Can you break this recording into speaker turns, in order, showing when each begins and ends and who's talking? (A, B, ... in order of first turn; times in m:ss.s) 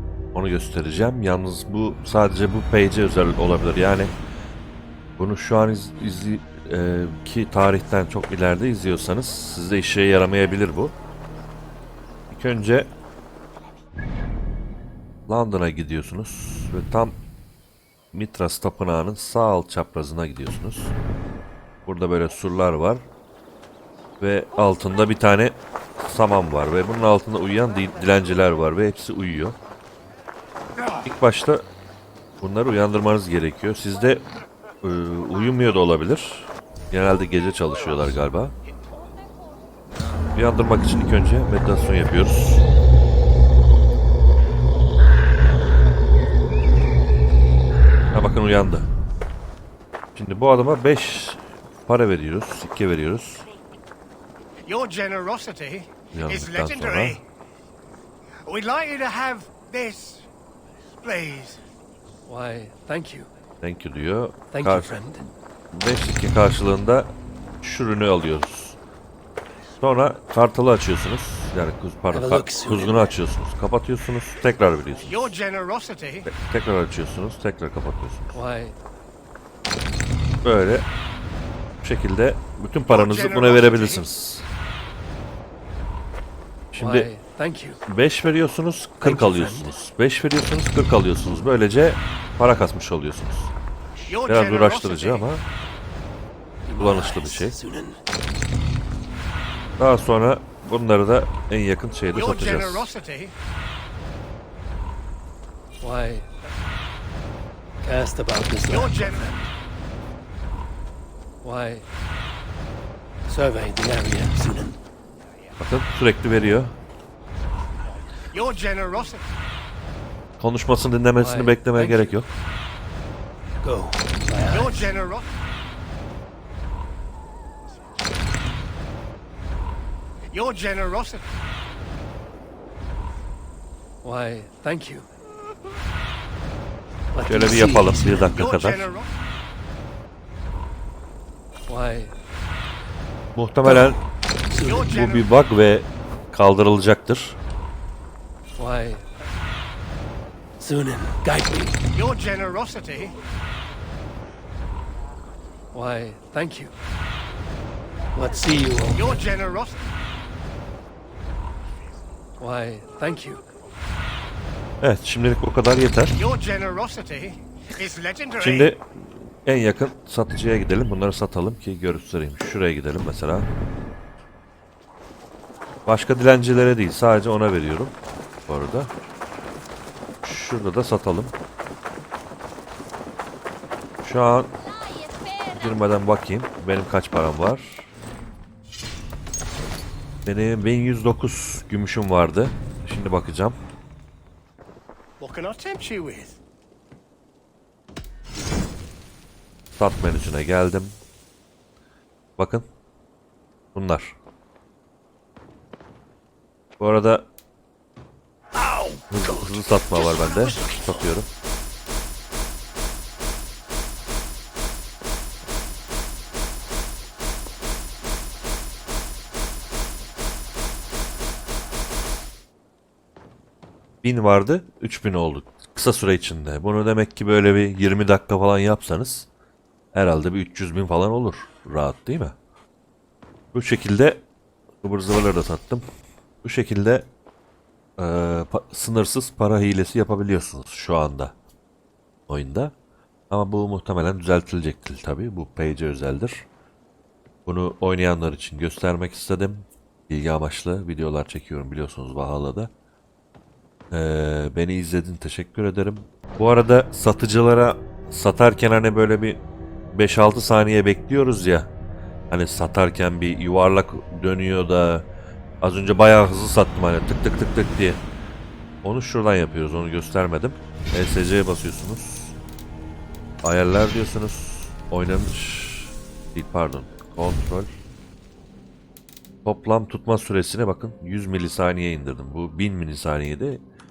0:00.3-0:04.1 A
0:05.2-0:10.9 A
0:12.3-0:12.9 A
0:15.3-0:17.2 A
0:18.1-0:20.9 A
0:21.8-0:23.0 A
0:24.2-0:29.6 A
0:31.0-0:31.6 A
0:32.4-0:34.2 A
0:34.8-0:38.5 A
0:40.3-0:42.6 A
0:48.1-0:48.9 A
0:50.2-0:53.5 A
0:54.6-0:57.2 B
0:56.1-0:57.2 A
0:58.4-1:00.3 B
1:01.0-1:01.6 B
1:02.3-1:03.3 C
1:03.6-1:08.8 A
1:04.5-1:05.2 C
1:09.8-1:15.3 A
1:12.1-1:13.1 C
1:15.1-1:16.3 B
1:16.3-1:18.4 A
1:18.3-1:18.8 C
1:20.4-1:20.8 A
1:21.8-1:24.5 A
1:22.9-1:24.0 B
1:26.7-1:27.1 A
1:26.8-1:27.8 C
1:27.9-1:33.5 A
1:29.0-1:29.7 C
1:34.1-1:35.2 B
1:34.2-1:35.4 A
1:36.6-1:38.0 C
1:36.8-1:37.6 A
1:39.8-1:42.9 A
1:42.1-1:43.3 B
1:45.8-1:46.3 C
1:47.8-1:49.5 C
1:51.4-1:51.8 C
1:53.2-1:54.8 C
1:55.6-1:56.8 A
1:58.3-1:59.2 B
2:00.4-2:02.3 A
2:01.2-2:02.1 C
2:03.6-2:05.0 C
2:04.7-2:05.3 B
2:10.3-2:11.2 B
2:14.0-2:15.1 C
2:17.1-2:18.4 C
2:17.2-2:18.9 A
2:18.4-2:19.1 B
2:21.7-2:22.1 C
2:23.4-2:24.0 A
2:23.6-2:23.9 C
2:24.5-2:25.1 C
2:24.6-2:27.4 A
2:28.6-2:29.0 C
2:30.6-2:31.9 C
2:31.9-2:33.2 B
2:35.7-2:36.7 C
2:38.1-2:39.4 C
2:39.1-2:39.8 B
2:42.4-2:43.5 C
2:44.8-2:46.2 A
2:46.2-2:48.7 B
2:48.4-2:48.9 A
2:49.4-2:53.5 A
2:55.8-2:57.9 A
2:58.5-2:58.9 A
3:00.2-3:01.3 A
3:04.0-3:04.5 A
3:05.3-3:07.9 A
3:10.2-3:13.6 A
3:15.2-3:16.4 B
3:19.8-3:21.0 A
3:22.4-3:22.7 A
3:23.7-3:24.2 A
3:26.8-3:27.3 A
3:29.1-3:31.3 A
3:44.0-3:49.3 A
3:49.9-3:52.3 A
3:53.5-3:54.2 A
3:54.8-3:55.8 A
3:56.4-3:57.1 A
3:58.0-4:01.3 A
4:02.3-4:02.7 A
4:03.3-4:06.5 A
4:07.4-4:12.7 A
4:13.9-4:19.4 A
4:19.9-4:21.7 A
4:22.3-4:25.0 A
4:25.6-4:28.0 A
4:28.8-4:32.4 A
4:33.4-4:37.7 A
4:39.4-4:43.6 A